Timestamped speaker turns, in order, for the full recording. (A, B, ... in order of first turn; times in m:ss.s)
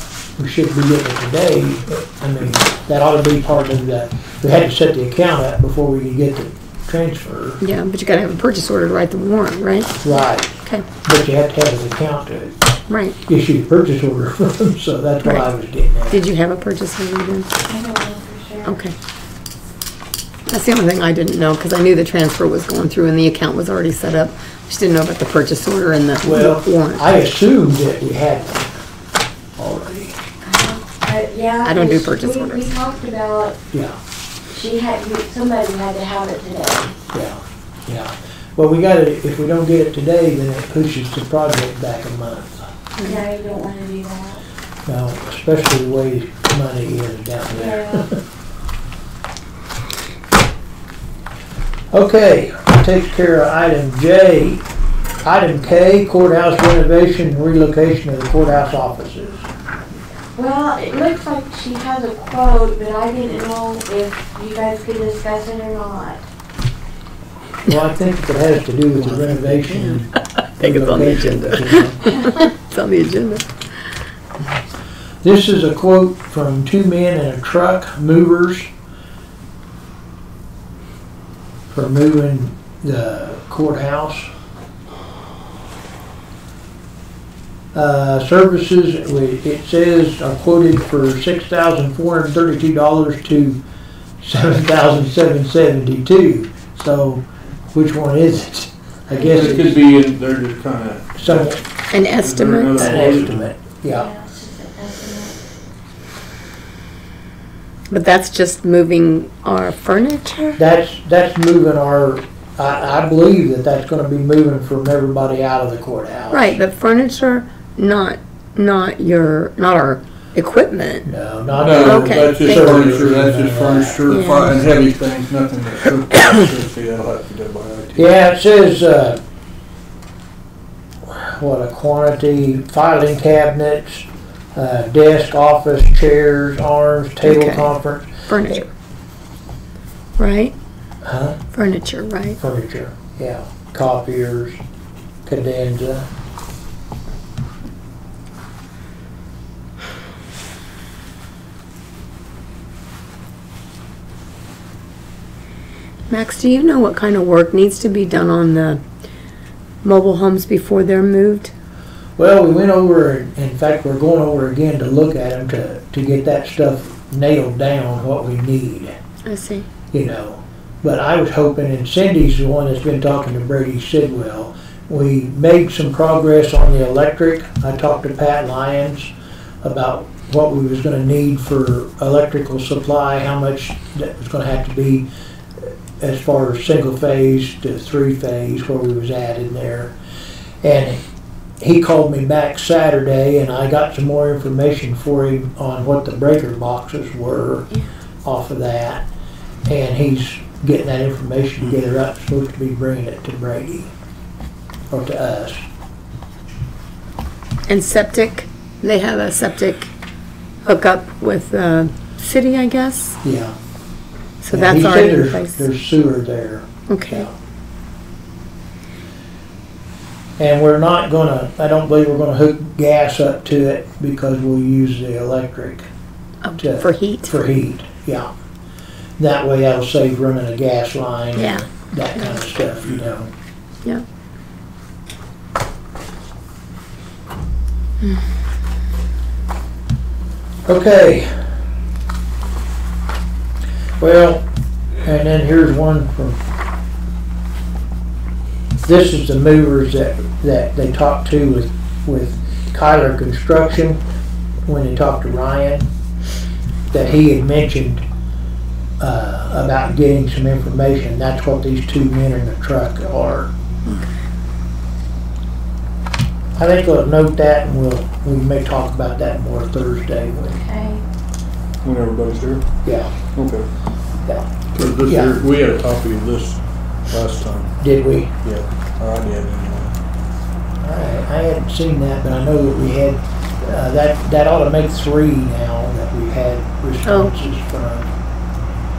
0:00.4-0:07.6 A
0:07.6-0:10.0 B
0:10.0-0:12.5 A
0:12.9-0:13.2 B
0:13.2-0:16.3 A
0:15.2-0:15.5 B
0:16.1-0:17.5 B
0:17.6-0:18.8 C
0:18.6-0:19.0 B
0:20.5-0:27.0 B
0:26.2-0:28.7 A
0:29.6-0:30.2 A
0:30.4-0:33.6 C
0:31.6-0:32.7 B
0:33.7-0:34.0 A
0:34.5-0:36.9 C
0:37.1-0:42.7 A
0:43.0-0:44.4 C
0:44.8-0:48.2 A
0:47.5-0:48.1 C
0:51.9-0:54.6 A
0:55.2-0:59.5 A
1:00.4-1:06.2 C
1:07.6-1:12.1 A
1:09.7-1:13.6 B
1:15.2-1:18.7 A
1:21.7-1:24.3 A
1:27.7-1:33.6 A
1:34.2-1:39.8 A
1:39.2-1:43.5 D
1:41.2-1:41.6 A
1:41.9-1:43.2 B
1:42.8-1:44.1 A
1:43.9-1:45.4 C
1:47.9-1:50.6 B
1:50.6-1:56.6 A
1:56.3-2:03.0 B
2:01.0-2:04.0 A
2:01.6-2:08.1 D
2:04.1-2:04.6 B
2:08.0-2:09.2 A
2:11.1-2:18.6 A
2:17.2-2:17.7 B
2:18.2-2:18.7 B
2:20.2-2:20.6 B
2:21.0-2:21.4 A
2:21.5-2:22.4 B
2:22.4-2:24.6 A
2:25.3-2:26.1 A
2:36.1-2:38.8 B
2:39.8-2:41.5 B
2:42.2-2:48.9 A
2:49.3-2:49.7 B
2:49.9-2:59.1 A
2:59.6-3:05.1 A
3:05.6-3:09.9 A
3:10.6-3:11.0 A
3:11.6-3:17.7 A
3:18.2-3:19.0 A
3:19.7-3:23.9 A
3:24.9-3:25.6 A
3:27.7-3:29.9 B
3:30.6-3:33.2 B
3:33.2-3:33.6 A
3:34.4-3:35.7 B
3:34.5-3:37.3 A
3:36.9-3:37.3 B
3:40.4-3:45.9 A
3:46.4-3:47.4 B
3:46.6-3:48.3 A
3:49.2-3:53.3 A
3:51.4-3:52.4 B
4:00.7-4:01.4 A
4:04.0-4:04.4 A
4:05.0-4:06.4 A
4:08.8-4:14.0 A
4:14.6-4:15.9 A
4:16.9-4:18.0 A
4:19.0-4:23.5 A
4:23.8-4:24.1 B
4:26.6-4:30.6 A
4:30.5-4:31.0 C
4:31.8-4:32.6 D
4:32.8-4:33.1 A
4:33.3-4:33.7 D
4:34.2-4:35.4 A
4:34.7-4:37.8 D
4:37.8-4:38.4 A
4:38.4-4:39.9 D
4:40.8-4:48.1 A
4:47.0-4:47.3 B